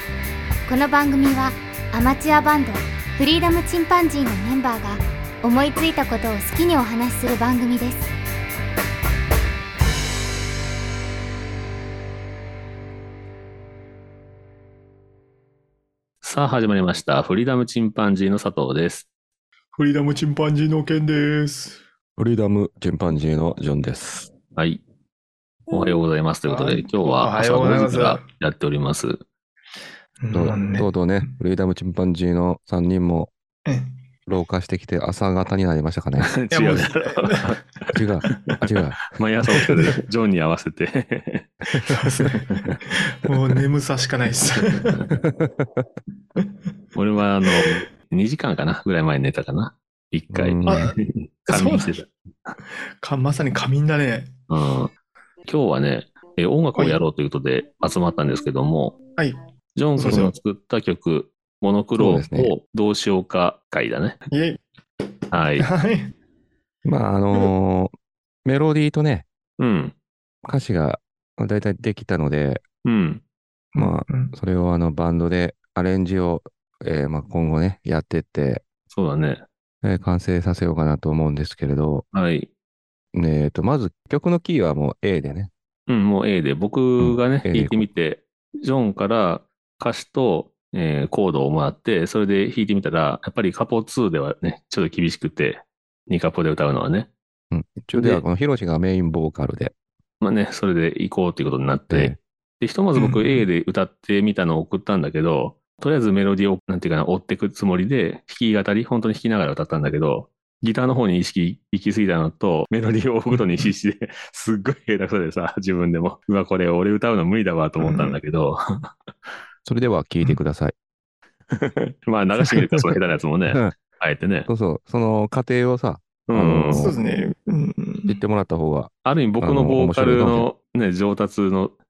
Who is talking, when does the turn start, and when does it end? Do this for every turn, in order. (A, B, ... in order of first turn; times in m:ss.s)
0:00.7-0:08.1 A
0:16.2-0:19.1 B
0:19.8-0:21.8 C
0:22.2-0:24.3 D
0:24.6-0:24.8 B
0:25.7-0:29.2 B
0:26.5-0:28.2 C
0:30.2-0:31.0 C
0:30.3-0:33.3 D
0:33.7-0:33.9 C
0:34.3-0:36.3 D
0:36.2-0:42.8 B
0:36.5-0:37.6 C
0:37.9-0:39.0 D
0:41.9-0:45.2 C
0:44.5-0:45.1 B
0:45.2-0:45.8 D
0:47.0-0:52.6 B
0:50.3-0:50.8 D
0:50.7-0:51.0 C
0:51.5-0:52.0 C
0:52.6-0:54.3 C
0:54.5-0:54.9 B
0:55.5-0:59.0 B
0:56.8-0:57.0 C
0:59.8-1:04.2 B
1:00.0-1:00.3 C
1:02.0-1:02.5 D
1:04.3-1:04.6 C
1:05.1-1:06.1 C
1:05.3-1:05.7 B
1:06.8-1:07.9 D
1:08.4-1:09.3 D
1:09.6-1:10.0 B
1:10.4-1:12.6 D
1:12.8-1:13.2 B
1:13.7-1:14.4 C
1:13.8-1:18.6 D
1:18.9-1:19.4 B
1:19.8-1:22.0 D
1:22.1-1:22.5 B
1:23.1-1:25.5 D
1:25.9-1:37.1 B
1:27.0-1:27.9 D
1:37.5-1:39.7 D
1:37.9-1:38.2 B
1:40.2-1:58.9 B
1:41.9-1:42.2 D
1:43.0-1:43.4 C
1:53.3-1:53.7 C
1:57.8-1:58.2 C
1:59.7-2:00.7 D
2:01.5-2:04.5 B
2:04.5-2:07.0 D
2:06.3-2:06.9 B
2:06.7-2:08.2 C
2:08.1-2:10.5 D
2:09.0-2:11.8 B